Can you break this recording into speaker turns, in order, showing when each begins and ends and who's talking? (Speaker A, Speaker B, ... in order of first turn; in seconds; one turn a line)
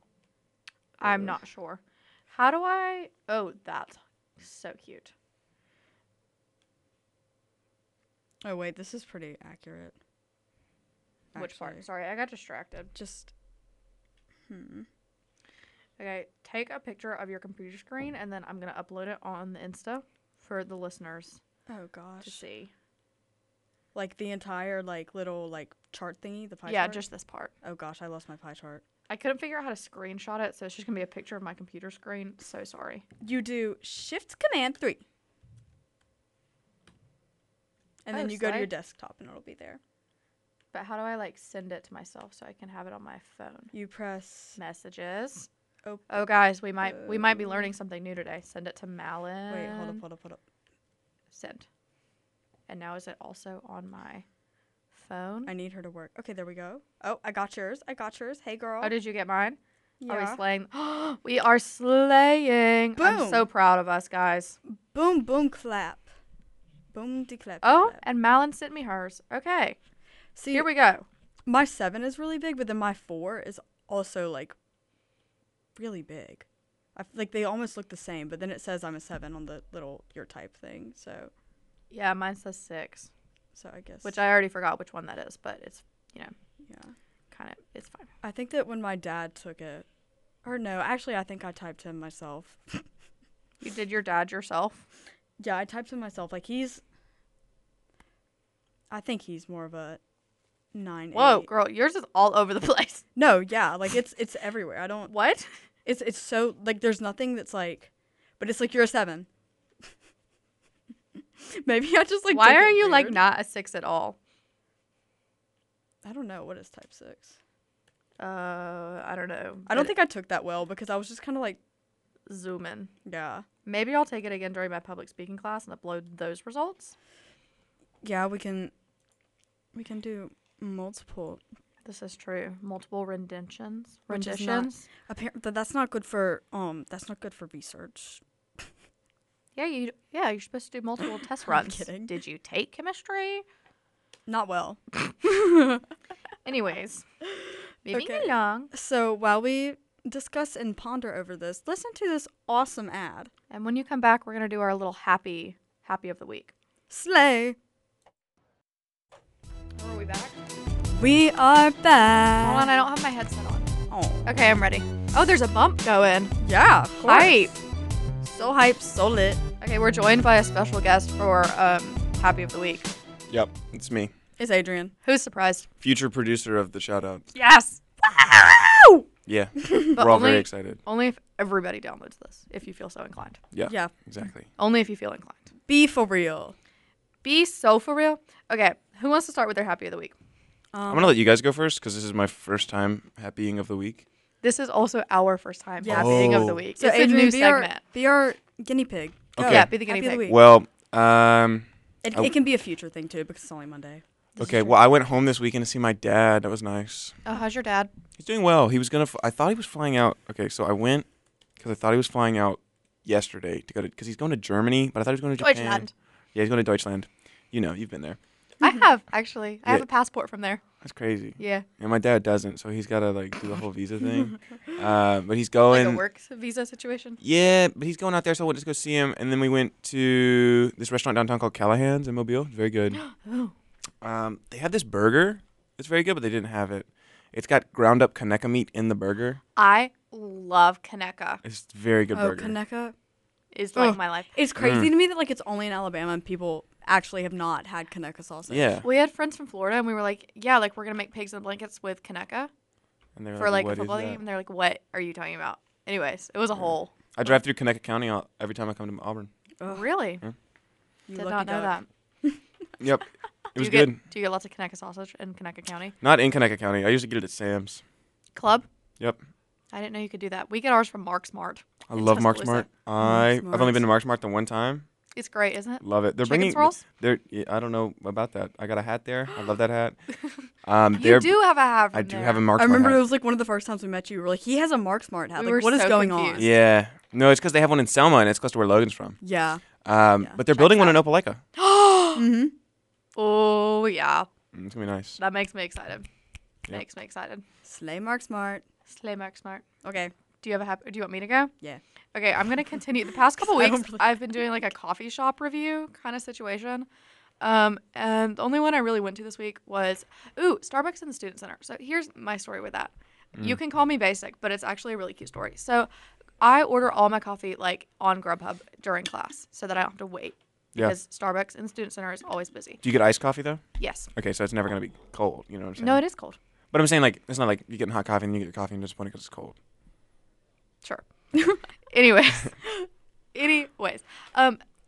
Speaker A: 1.0-5.1
Speaker B: 1.0-1.4
Speaker B: 8.4-10.0
Speaker B: 11.3-11.8
Speaker A: 11.3-12.9
Speaker B: 12.9-13.3
Speaker B: 14.5-14.9
Speaker A: 16.0-21.4
Speaker B: 21.7-22.4
Speaker A: 22.2-22.7
Speaker B: 23.9-27.1
Speaker A: 26.7-27.5
Speaker B: 27.6-28.8
Speaker A: 29.1-33.0
Speaker B: 33.2-35.0
Speaker B: 38.1-39.8
Speaker A: 38.1-38.7
Speaker A: 40.7-43.7
Speaker B: 43.7-44.6
Speaker A: 44.6-45.5
Speaker B: 45.8-47.7
Speaker A: 46.1-50.0
Speaker B: 49.5-50.4
Speaker A: 51.3-51.7
Speaker A: 52.7-54.2
Speaker A: 54.9-55.5
Speaker B: 55.5-58.9
Speaker A: 58.8-64.6
Speaker B: 60.0-60.4
Speaker B: 63.0-63.5
Speaker B: 64.7-66.1
Speaker B: 66.9-68.0
Speaker A: 67.6-69.8
Speaker B: 70.4-70.7
Speaker A: 70.5-71.1
Speaker B: 71.5-74.5
Speaker B: 75.8-81.3
Speaker A: 81.9-83.1
Speaker B: 83.5-84.2
Speaker A: 84.0-86.3
Speaker B: 86.7-87.0
Speaker A: 87.3-88.1
Speaker B: 88.2-89.9
Speaker B: 90.4-92.9
Speaker A: 93.6-94.9
Speaker B: 95.4-96.8
Speaker B: 98.9-100.0
Speaker B: 100.7-101.5
Speaker A: 101.1-103.0
Speaker B: 103.2-105.1
Speaker A: 105.1-105.5
Speaker B: 105.8-109.3
Speaker B: 111.4-113.2
Speaker A: 112.3-114.2
Speaker B: 116.0-117.4
Speaker A: 118.2-119.9
Speaker B: 119.7-121.6
Speaker A: 122.3-122.9
Speaker B: 123.0-123.5
Speaker A: 123.7-127.0
Speaker B: 128.0-128.7
Speaker B: 129.7-131.4
Speaker A: 131.8-134.9
Speaker B: 134.1-138.2
Speaker A: 139.6-143.4
Speaker B: 141.5-142.2
Speaker B: 144.3-145.8
Speaker A: 146.4-147.1
Speaker A: 147.8-148.7
Speaker B: 147.9-153.3
Speaker A: 153.5-156.5
Speaker B: 156.9-157.6
Speaker A: 159.8-160.4
Speaker B: 160.9-162.7
Speaker A: 162.4-163.7
Speaker B: 163.9-164.3
Speaker A: 164.2-166.3
Speaker B: 166.4-167.5
Speaker A: 167.0-167.6
Speaker B: 168.2-169.4
Speaker A: 169.6-172.9
Speaker C: 173.3-174.1
Speaker B: 174.4-174.9
Speaker A: 175.0-175.7
Speaker C: 175.8-177.3
Speaker A: 177.3-177.8
Speaker B: 178.0-179.0
Speaker C: 179.3-180.8
Speaker A: 179.9-183.4
Speaker C: 183.5-184.5
Speaker B: 183.6-183.9
Speaker A: 184.6-185.5
Speaker B: 185.7-186.6
Speaker A: 187.2-190.2
Speaker B: 190.7-191.2
Speaker C: 190.9-194.0
Speaker A: 194.4-197.8
Speaker B: 195.8-200.4
Speaker C: 195.9-196.6
Speaker C: 199.4-202.3
Speaker A: 199.4-200.3
Speaker B: 202.0-204.0
Speaker A: 204.4-204.8
Speaker C: 204.4-207.2
Speaker A: 207.2-207.9
Speaker C: 208.2-211.1
Speaker C: 211.6-218.2
Speaker A: 215.4-215.9
Speaker A: 218.6-220.6
Speaker C: 220.8-226.0
Speaker A: 221.4-221.7
Speaker A: 225.7-227.2
Speaker C: 227.2-233.0
Speaker A: 232.9-233.5
Speaker C: 234.0-239.4
Speaker A: 239.6-241.4
Speaker C: 241.4-242.6
Speaker B: 242.1-242.9
Speaker A: 243.5-244.3
Speaker B: 243.8-248.7
Speaker C: 244.6-244.9
Speaker C: 248.5-248.9
Speaker A: 248.8-252.5
Speaker C: 253.2-254.2
Speaker A: 253.4-256.9
Speaker C: 257.1-259.3
Speaker B: 259.6-259.9
Speaker A: 259.7-260.2
Speaker B: 261.1-262.4
Speaker A: 261.1-261.9
Speaker C: 262.8-264.0
Speaker A: 263.6-265.9
Speaker C: 266.0-267.8
Speaker A: 268.4-268.7
Speaker A: 269.7-272.7
Speaker C: 271.9-274.9
Speaker B: 273.0-273.9
Speaker A: 275.2-276.8
Speaker C: 275.8-280.1
Speaker C: 280.6-283.0
Speaker A: 280.9-282.4
Speaker B: 282.6-286.5
Speaker A: 285.4-286.5
Speaker C: 286.4-289.2
Speaker B: 289.2-289.6
Speaker C: 289.8-291.4
Speaker B: 290.2-290.9
Speaker A: 290.6-290.9
Speaker A: 291.6-292.3
Speaker B: 292.2-292.5
Speaker A: 293.2-294.3
Speaker C: 294.5-295.2
Speaker A: 295.2-296.1
Speaker A: 296.7-297.4
Speaker B: 297.6-298.6
Speaker A: 298.9-299.6
Speaker B: 299.8-300.1
Speaker A: 300.4-301.5
Speaker A: 302.1-306.9
Speaker B: 303.4-304.2
Speaker A: 307.4-315.9
Speaker A: 316.4-322.8
Speaker C: 322.8-326.0
Speaker A: 323.8-324.1
Speaker A: 325.8-326.4
Speaker C: 326.7-329.6
Speaker A: 330.8-334.6